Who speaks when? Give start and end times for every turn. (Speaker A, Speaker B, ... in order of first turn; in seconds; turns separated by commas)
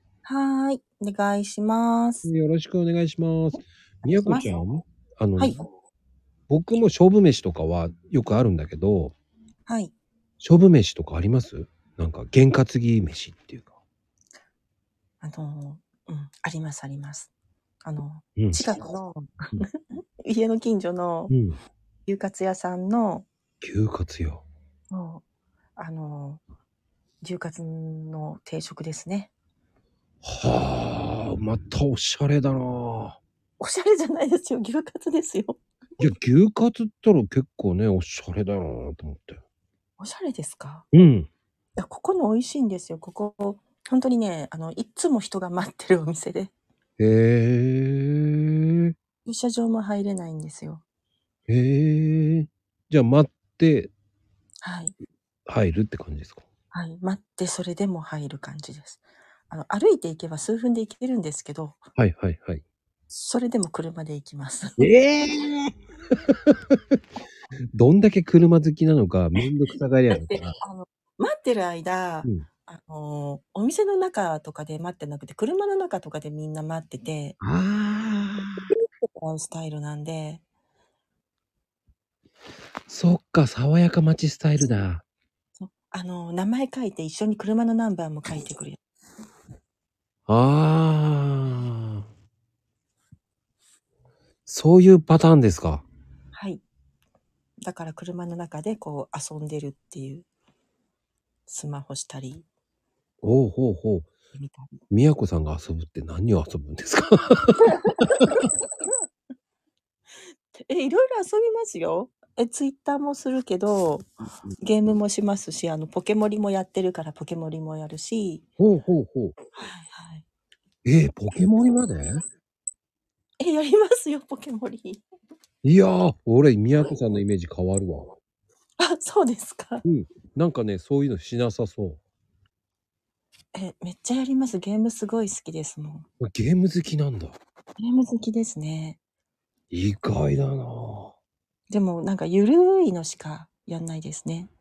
Speaker A: 0.2-2.3, Speaker B: 2.2-5.6, Speaker A: 4.0-4.6, Speaker A: 5.4-5.6, Speaker B: 6.5-9.1, Speaker A: 9.7-9.9, Speaker B: 10.4-13.7, Speaker A: 15.2-17.3, Speaker A: 17.8-21.3, Speaker B: 21.3-21.6, Speaker A: 22.1-23.3, Speaker B: 23.6-24.4, Speaker A: 24.9-25.2, Speaker A: 25.8-26.4, Speaker A: 27.2-29.3, Speaker B: 30.2-33.2, Speaker A: 33.6-36.1, Speaker B: 36.0-39.4, Speaker A: 40.0-40.9, Speaker B: 40.9-41.3, Speaker A: 41.8-46.5, Speaker B: 47.0-48.9, Speaker A: 49.2-50.8, Speaker B: 51.5-53.9, Speaker A: 54.6-55.0, Speaker B: 55.5-56.4, Speaker A: 56.7-61.8, Speaker B: 62.0-62.6, Speaker A: 63.1-64.8, Speaker B: 64.8-65.7, Speaker B: 67.7-70.6, Speaker A: 70.1-77.4, Speaker B: 77.4-78.7, Speaker A: 79.0-80.4, Speaker B: 82.9-85.0, Speaker A: 85.6-88.8, Speaker B: 90.3-91.9, Speaker B: 94.5-95.8, Speaker A: 96.3-96.6, Speaker A: 97.6-100.3, Speaker A: 101.5-102.5, Speaker B: 103.2-104.1, Speaker A: 104.3-104.8, Speaker B: 104.9-107.7, Speaker A: 110.6-118.5, Speaker B: 118.6-119.3, Speaker A: 119.5-120.2, Speaker B: 120.8-122.2, Speaker A: 123.4-125.0, Speaker B: 125.6-128.2, Speaker A: 128.8-129.8, Speaker B: 129.8-132.0, Speaker A: 133.5-136.1, Speaker B: 136.2-137.4, Speaker A: 137.8-139.0, Speaker B: 139.7-141.1, Speaker A: 141.7-144.5